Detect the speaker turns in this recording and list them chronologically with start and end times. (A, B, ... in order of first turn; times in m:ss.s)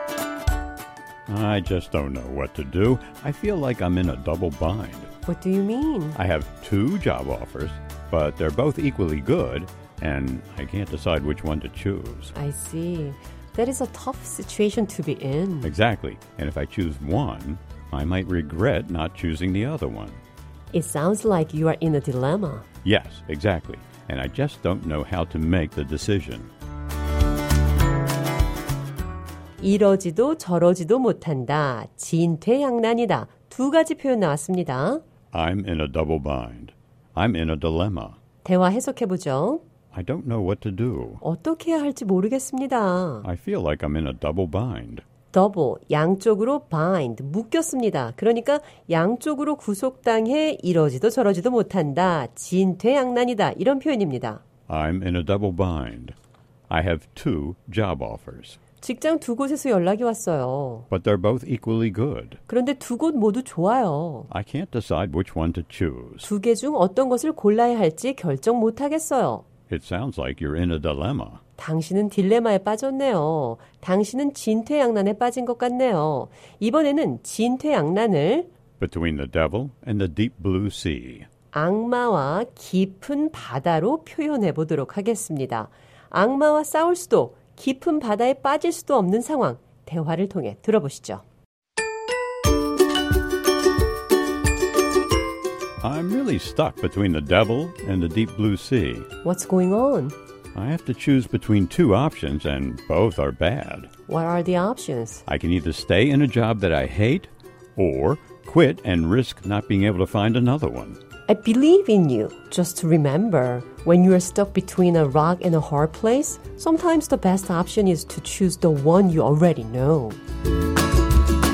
0:01.3-0:05.1 A
0:05.2-0:06.2 B
0:06.2-0:12.3 A
0:12.3-0:15.7 B
0:15.6-0:20.2 A
0:20.7-0:22.6 B
0:22.8-0:26.5 A
0:29.6-0:35.0 B
0:35.3-0:38.2 A
0:38.4-0:39.6 B
0:39.9-0:41.2 A
0:41.2-0:43.2 B
0:43.2-0:45.0 A
0:45.3-0:54.4 B
0:54.7-0:56.1 A
0:56.7-0:58.6 A
0:58.8-1:00.9 B
1:00.9-1:02.4 A
1:02.5-1:04.3 B
1:04.3-1:06.3 A
1:06.2-1:09.4 B
1:09.7-1:11.4 A
1:11.6-1:18.5 B
1:18.8-1:21.3 A
1:21.5-1:31.2 B
1:35.8-1:39.1 A
1:39.2-1:40.1 B
1:40.5-1:43.9 A
1:44.1-1:45.2 B
1:45.2-1:51.0 A
1:51.3-2:00.2 B